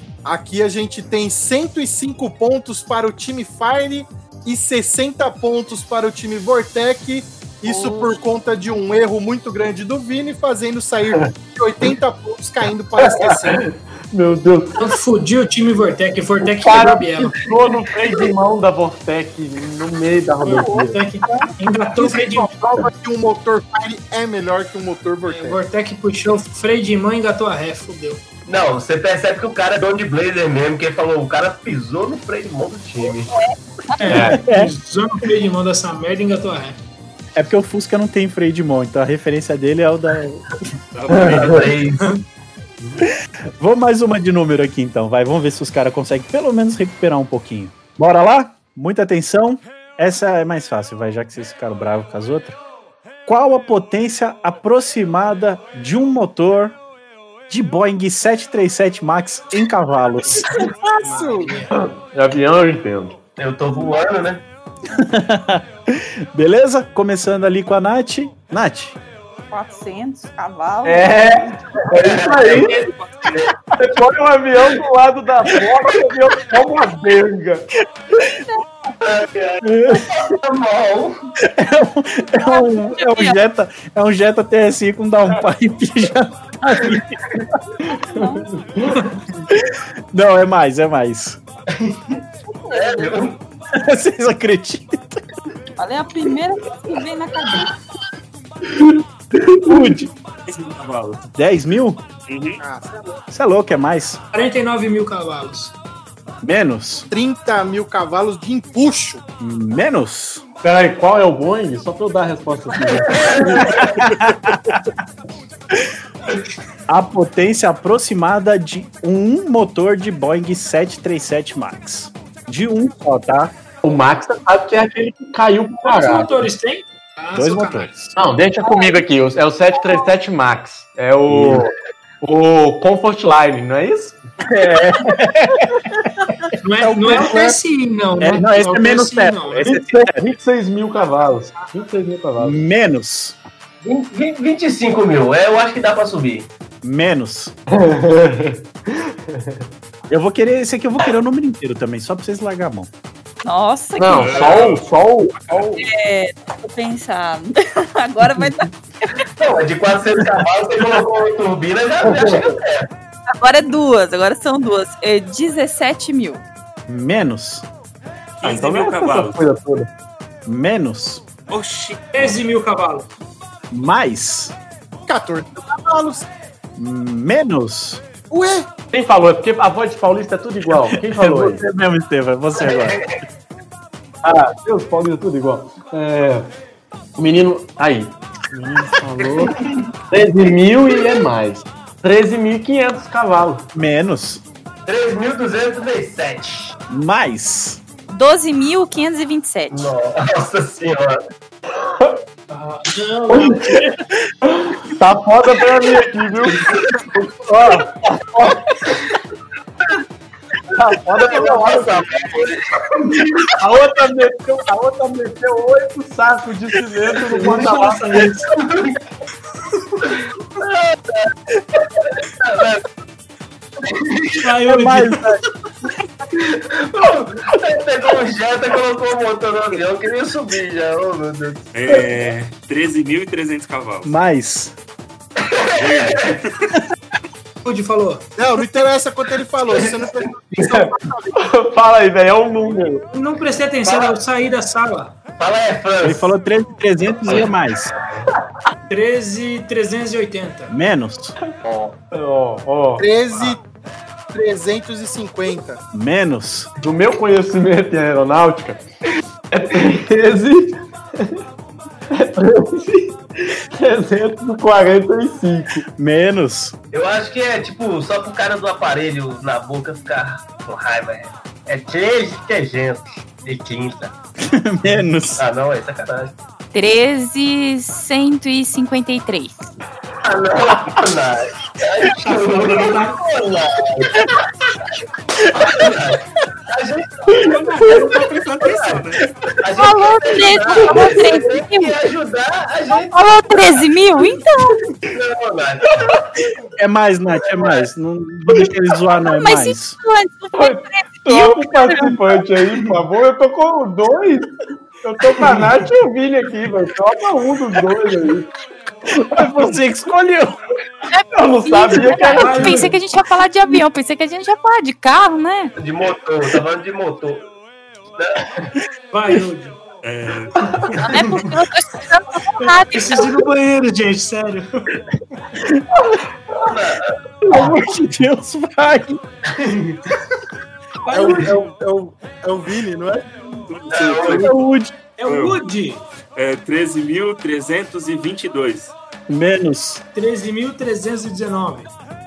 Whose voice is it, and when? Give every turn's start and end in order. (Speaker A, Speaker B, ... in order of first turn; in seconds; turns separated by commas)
Speaker A: 0.2-13.7, Speaker B: 13.0-14.9, Speaker C: 14.8-17.4, Speaker B: 16.4-21.5, Speaker C: 20.4-22.5, Speaker A: 21.9-25.6, Speaker C: 25.3-28.2, Speaker D: 28.4-33.2, Speaker B: 32.9-33.3, Speaker E: 33.2-34.2, Speaker C: 34.0-36.8, Speaker B: 34.1-34.4, Speaker F: 34.3-34.7, Speaker F: 37.3-40.4, Speaker G: 40.9-41.8, Speaker B: 41.1-41.6, Speaker D: 41.2-42.1, Speaker F: 43.6-52.6, Speaker F: 53.2-56.8, Speaker F: 57.5-60.5, Speaker C: 60.3-61.8, Speaker A: 60.5-61.6, Speaker B: 61.7-63.2, Speaker D: 63.4-64.4, Speaker F: 64.9-69.0, Speaker E: 69.5-71.6, Speaker B: 70.8-72.9, Speaker D: 71.8-72.6, Speaker G: 72.4-73.5, Speaker D: 73.3-73.5, Speaker B: 73.7-77.7, Speaker E: 78.3-78.6, Speaker D: 79.0-81.3, Speaker F: 79.6-80.3, Speaker F: 81.4-87.7, Speaker E: 82.4-83.4, Speaker B: 87.8-89.0, Speaker E: 87.9-88.5, Speaker F: 89.5-91.4, Speaker D: 91.7-92.0, Speaker E: 92.6-93.2, Speaker D: 92.7-93.4, Speaker F: 93.7-95.2, Speaker E: 95.8-97.7, Speaker B: 98.7-100.0, Speaker F: 99.7-100.0, Speaker G: 100.5-101.2, Speaker F: 101.3-102.0, Speaker G: 102.3-102.6, Speaker A: 102.6-103.2, Speaker F: 103.3-104.2, Speaker C: 104.3-105.7, Speaker F: 106.4-107.1, Speaker A: 107.1-109.2, Speaker F: 109.4-110.4, Speaker B: 110.6-113.9, Speaker D: 113.1-113.9, Speaker F: 113.7-114.8, Speaker F: 116.9-123.5, Speaker B: 123.8-126.5, Speaker C: 125.8-128.2, Speaker F: 127.3-127.9, Speaker B: 128.1-134.2, Speaker E: 128.6-129.0, Speaker F: 131.3-131.6, Speaker F: 134.4-135.8, Speaker C: 136.6-139.8, Speaker F: 136.8-137.4, Speaker F: 138.2-140.2, Speaker B: 139.6-142.6, Speaker C: 140.9-141.9, Speaker F: 142.4-143.4, Speaker D: 143.8-146.5, Speaker F: 146.8-147.5, Speaker B: 147.7-149.6, Speaker F: 150.1-152.9, Speaker E: 153.4-154.6, Speaker B: 154.0-155.8, Speaker G: 154.1-155.7, Speaker E: 155.7-159.2, Speaker D: 159.4-162.9, Speaker B: 162.0-162.6, Speaker E: 163.3-166.4, Speaker F: 166.9-167.6, Speaker G: 168.4-169.4, Speaker B: 168.4-169.9, Speaker F: 170.4-171.2, Speaker G: 171.5-172.4, Speaker C: 172.1-173.1, Speaker F: 173.7-174.6, Speaker A: 175.1-176.3, Speaker F: 176.8-178.0, Speaker A: 178.3-178.7, Speaker B: 178.9-181.6, Speaker F: 180.9-183.0, Speaker D: 182.5-183.1, Speaker B: 184.2-186.5, Speaker B: 187.2-189.6, Speaker D: 189.6-189.8, Speaker B: 190.1-193.7, Speaker F: 193.7-194.4, Speaker D: 194.9-196.7, Speaker F: 196.9-197.8, Speaker E: 198.1-199.9, Speaker D: 199.7-201.2, Speaker B: 201.7-202.2, Speaker C: 202.5-203.7, Speaker B: 203.3-206.7, Speaker B: 207.2-208.6, Speaker B: 210.7-212.1, Speaker D: 211.2-212.6, Speaker B: 213.6-218.3, Speaker C: 217.2-218.6, Speaker D: 218.2-218.9, Speaker D: 220.1-222.8, Speaker D: 223.9-224.4, Speaker C: 224.4-225.2, Speaker F: 224.6-225.4, Speaker D: 226.4-231.7, Speaker G: 231.7-234.1, Speaker F: 234.0-234.7, Speaker D: 235.4-236.3, Speaker G: 235.7-236.6, Speaker C: 237.6-238.2, Speaker A: 238.4-241.4, Speaker D: 239.7-240.3, Speaker B: 240.6-243.1, Speaker C: 243.1-245.2, Speaker D: 243.8-244.2, Speaker D: 245.4-246.3, Speaker F: 246.0-247.9, Speaker C: 248.9-250.7, Speaker F: 250.7-251.3, Speaker D: 251.6-251.9, Speaker B: 252.1-253.1, Speaker A: 253.0-253.6, Speaker G: 253.3-253.6, Speaker A: 254.3-255.8, Speaker F: 255.9-256.7, Speaker B: 256.8-258.8, Speaker B: 259.5-261.4, Speaker B: 262.1-265.8, Speaker F: 266.0-266.7, Speaker D: 266.9-274.1, Speaker F: 274.4-275.4, Speaker D: 275.4-276.4, Speaker E: 276.7-279.7, Speaker D: 280.2-284.3, Speaker C: 282.2-283.6, Speaker D: 285.6-287.6, Speaker B: 287.3-288.1, Speaker G: 287.4-289.4, Speaker D: 288.6-289.1, Speaker D: 289.6-293.3, Speaker E: 289.7-292.0, Speaker B: 290.7-291.1, Speaker E: 292.9-294.8, Speaker D: 295.1-296.3, Speaker F: 296.8-300.0, Speaker E: 299.2-302.2, Speaker B: 300.5-308.5, Speaker F: 309.1-310.6, Speaker B: 309.3-309.6, Speaker E: 311.1-315.7, Speaker B: 311.3-312.9, Speaker C: 312.1-313.0, Speaker D: 315.8-317.5, Speaker D: 318.1-318.4, Speaker C: 319.1-319.8, Speaker G: 320.0-321.2, Speaker B: 320.6-320.9, Speaker E: 321.0-323.3, Speaker C: 321.2-321.5, Speaker C: 322.5-325.0, Speaker B: 326.1-326.7, Speaker D: 326.5-327.1, Speaker F: 327.5-329.2, Speaker B: 327.5-327.7, Speaker D: 329.5-330.0, Speaker C: 331.1-331.5, Speaker A: 331.1-333.3, Speaker G: 333.7-334.5, Speaker A: 333.8-334.6, Speaker D: 333.9-334.5, Speaker F: 334.3-334.9, Speaker C: 335.2-336.0, Speaker G: 335.2-335.6, Speaker G: 336.3-338.9, Speaker F: 339.3-340.0, Speaker C: 340.1-341.9